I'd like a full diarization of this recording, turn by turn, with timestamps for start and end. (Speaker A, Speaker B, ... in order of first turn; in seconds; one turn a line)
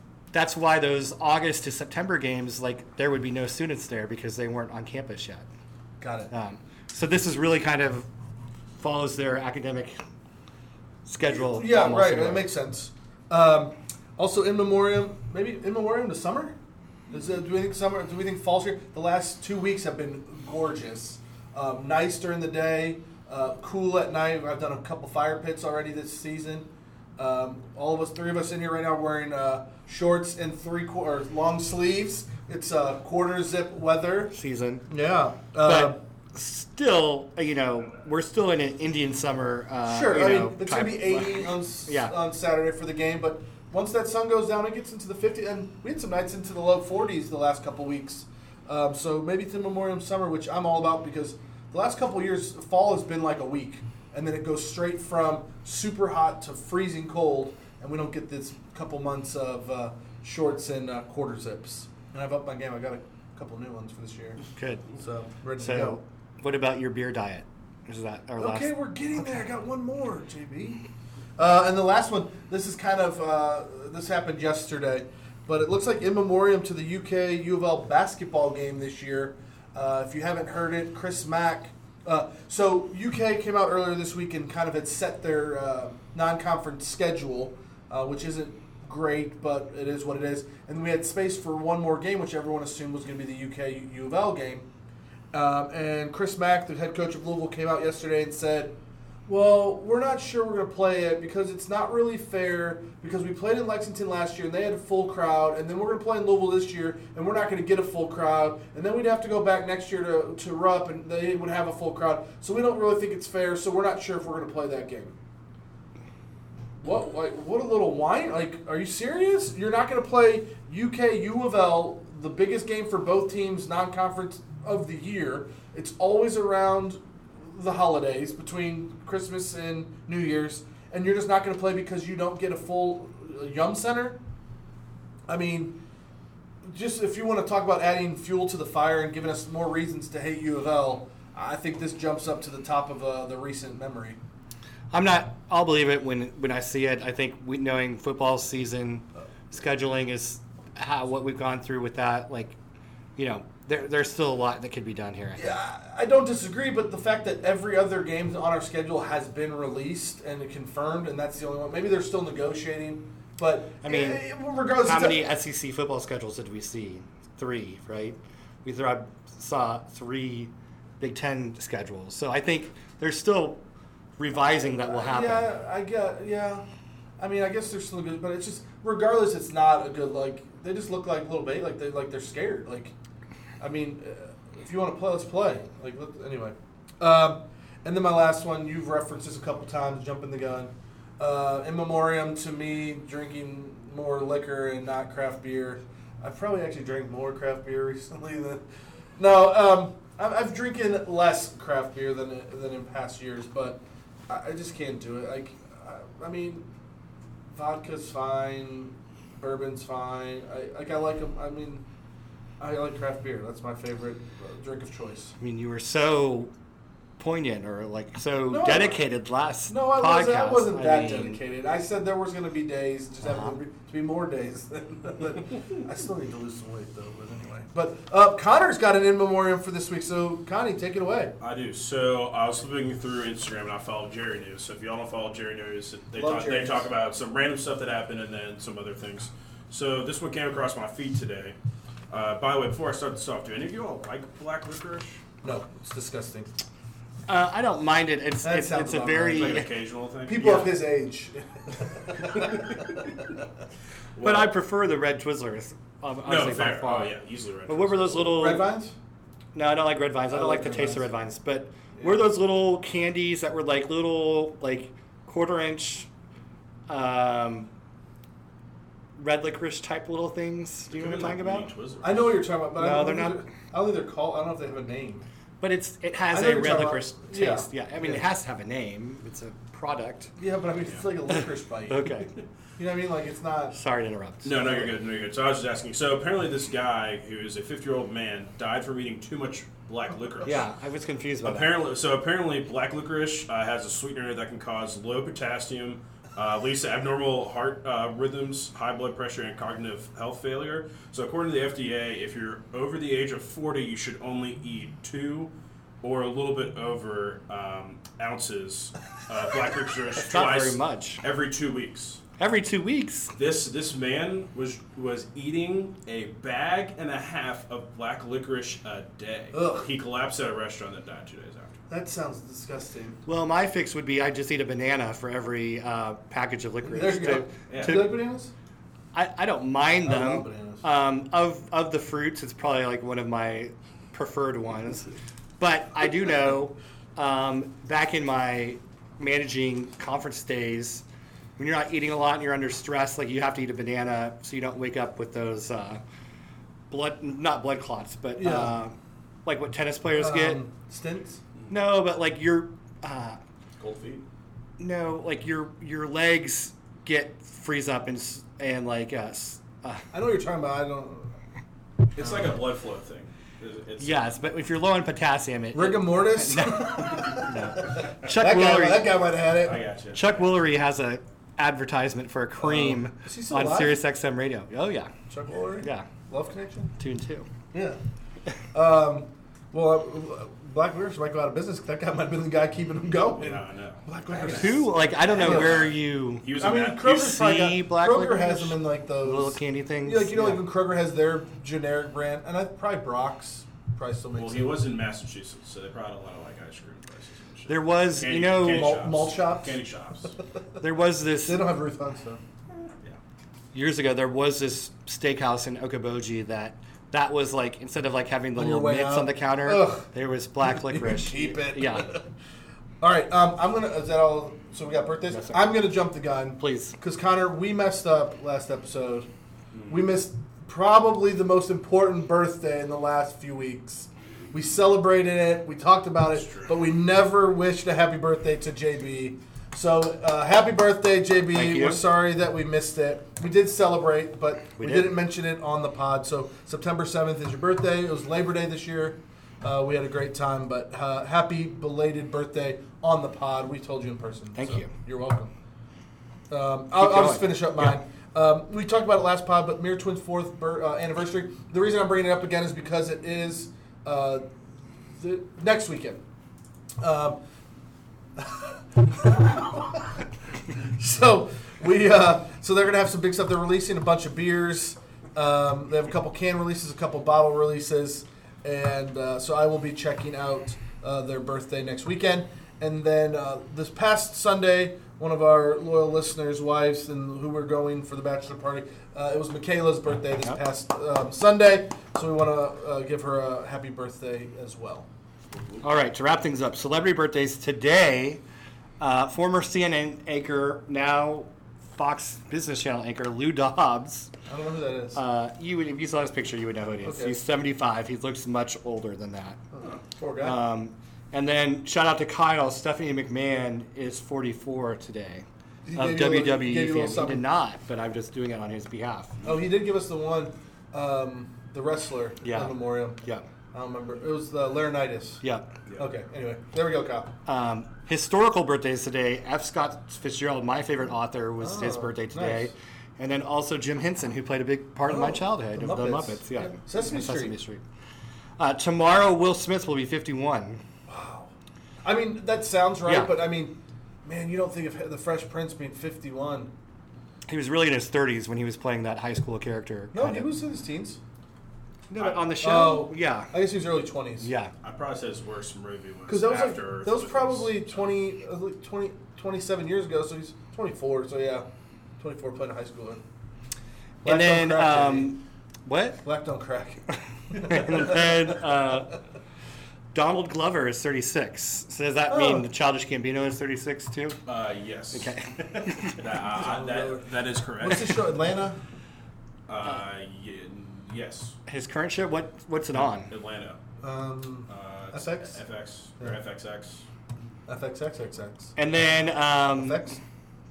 Speaker A: 0.3-5.5
Speaker B: 6.0-6.3
Speaker A: 6.3-8.1
Speaker A: 8.8-10.0
Speaker A: 11.1-12.5
Speaker B: 11.2-16.6
Speaker B: 17.1-34.3
Speaker A: 34.3-34.9
Speaker B: 34.9-36.0
Speaker A: 35.6-42.1
Speaker B: 39.9-64.4
Speaker A: 64.5-64.9
Speaker B: 64.9-66.0
Speaker A: 65.6-69.5
Speaker B: 68.4-70.8
Speaker B: 71.4-94.7
Speaker B: 95.3-98.7
Speaker B: 99.3-115.1
Speaker B: 116.8-134.2
Speaker B: 135.3-135.8
Speaker B: 136.6-144.2
Speaker A: 144.9-152.6
Speaker A: 153.2-155.6
Speaker B: 155.3-165.2
Speaker A: 163.8-164.2
Speaker A: 164.8-173.6
Speaker A: 174.2-175.5
Speaker B: 174.4-176.6
Speaker B: 177.2-182.9
Speaker B: 183.6-198.6
Speaker B: 199.2-206.7
Speaker B: 207.5-211.8
Speaker B: 212.6-215.3
Speaker A: 215.4-216.5
Speaker A: 217.2-221.4
Speaker B: 218.5-219.0
Speaker B: 219.7-231.3
Speaker A: 223.2-223.6
Speaker C: 231.4-241.6
Speaker B: 236.1-236.9
Speaker C: 242.1-245.2
Speaker B: 245.4-246.5
Speaker A: 247.3-249.7
Speaker B: 248.4-249.6
Speaker C: 249.3-250.8
Speaker B: 250.2-252.9
Speaker C: 254.2-254.5
Speaker A: 254.2-257.1
Speaker C: 256.2-258.4
Speaker A: 257.7-258.7
Speaker B: 258.3-258.9
Speaker A: 259.5-266.1
Speaker B: 260.3-261.1
Speaker B: 261.9-262.3
Speaker A: 266.9-267.7
Speaker A: 269.2-271.7
Speaker C: 270.9-272.4
Speaker B: 272.0-275.2
Speaker A: 272.8-273.5
Speaker A: 275.6-280.3
Speaker B: 276.3-278.2
Speaker B: 280.4-282.0
Speaker A: 281.9-282.3
Speaker B: 282.8-283.8
Speaker A: 283.7-285.0
Speaker C: 284.4-290.7
Speaker A: 290.4-291.8
Speaker C: 291.4-312.2
Speaker A: 310.2-311.2
Speaker A: 312.4-313.3
Speaker C: 313.4-321.8
Speaker B: 319.5-319.9
Speaker B: 321.9-323.2
Speaker A: 323.2-328.1
Speaker B: 326.9-328.5
Speaker C: 327.7-328.0
Speaker A: 329.1-341.0
Speaker B: 330.0-330.8
Speaker A: 341.6-346.0
Speaker A: 346.9-348.9
Speaker B: 348.4-348.7
Speaker A: 349.4-350.6
Speaker B: 350.1-351.4
Speaker A: 351.7-353.4
Speaker C: 353.8-354.2
Speaker A: 354.8-360.1
Speaker B: 360.1-361.3
Speaker C: 362.1-364.2
Speaker A: 362.2-362.5
Speaker A: 364.0-369.2
Speaker B: 365.7-369.8
Speaker C: 369.6-370.4
Speaker A: 370.1-375.1
Speaker B: 372.6-374.0
Speaker B: 375.3-376.9
Speaker A: 375.8-376.1
Speaker A: 377.0-377.5
Speaker B: 377.7-378.0
Speaker B: 378.7-385.9
Speaker C: 383.4-387.0
Speaker A: 384.4-390.6
Speaker B: 386.6-394.8
Speaker C: 394.4-400.3
Speaker A: 397.7-399.2
Speaker B: 398.6-399.8
Speaker A: 400.8-401.7
Speaker B: 401.4-402.4
Speaker A: 403.7-412.1
Speaker B: 408.5-410.1
Speaker B: 410.6-412.2
Speaker B: 413.0-419.3
Speaker A: 415.3-415.8
Speaker A: 416.6-417.0
Speaker C: 419.7-420.0
Speaker B: 419.9-445.5
Speaker C: 426.4-426.8
Speaker A: 431.5-432.0
Speaker A: 434.8-435.1
Speaker A: 444.6-444.9
Speaker B: 446.5-454.4
Speaker A: 446.9-448.0
Speaker B: 455.1-456.2
Speaker B: 457.0-457.4
Speaker B: 458.4-460.2
Speaker B: 460.9-485.1
Speaker C: 485.6-485.8
Speaker A: 485.8-488.4
Speaker A: 489.0-494.3
Speaker B: 494.5-495.2
Speaker A: 495.1-499.6
Speaker B: 497.0-497.4
Speaker B: 499.7-500.6
Speaker A: 500.4-509.4
Speaker B: 505.9-507.4
Speaker B: 509.4-513.2
Speaker A: 512.4-513.5
Speaker B: 513.7-515.4
Speaker A: 515.4-515.8
Speaker B: 516.0-517.3
Speaker A: 517.5-527.8
Speaker B: 521.6-522.7
Speaker B: 525.0-527.5
Speaker A: 528.6-530.8
Speaker B: 531.1-531.5
Speaker B: 532.0-536.7
Speaker A: 533.0-533.4
Speaker A: 537.5-540.5
Speaker B: 540.1-541.2
Speaker A: 542.1-543.6
Speaker C: 542.2-542.4
Speaker B: 542.5-544.5
Speaker A: 544.4-544.7
Speaker C: 544.8-548.1
Speaker B: 546.3-551.7
Speaker B: 552.2-553.2
Speaker B: 554.2-555.3
Speaker A: 554.2-556.2
Speaker B: 556.2-558.6
Speaker A: 557.5-559.2
Speaker A: 560.1-564.4
Speaker B: 562.3-562.6
Speaker C: 564.5-565.3
Speaker A: 565.1-566.4
Speaker C: 566.1-568.3
Speaker B: 566.5-568.8
Speaker C: 569.7-571.6
Speaker A: 571.7-573.3
Speaker C: 573.0-573.8
Speaker B: 574.0-575.6
Speaker C: 574.7-577.0
Speaker B: 577.7-578.8
Speaker A: 578.8-580.0
Speaker B: 579.7-580.2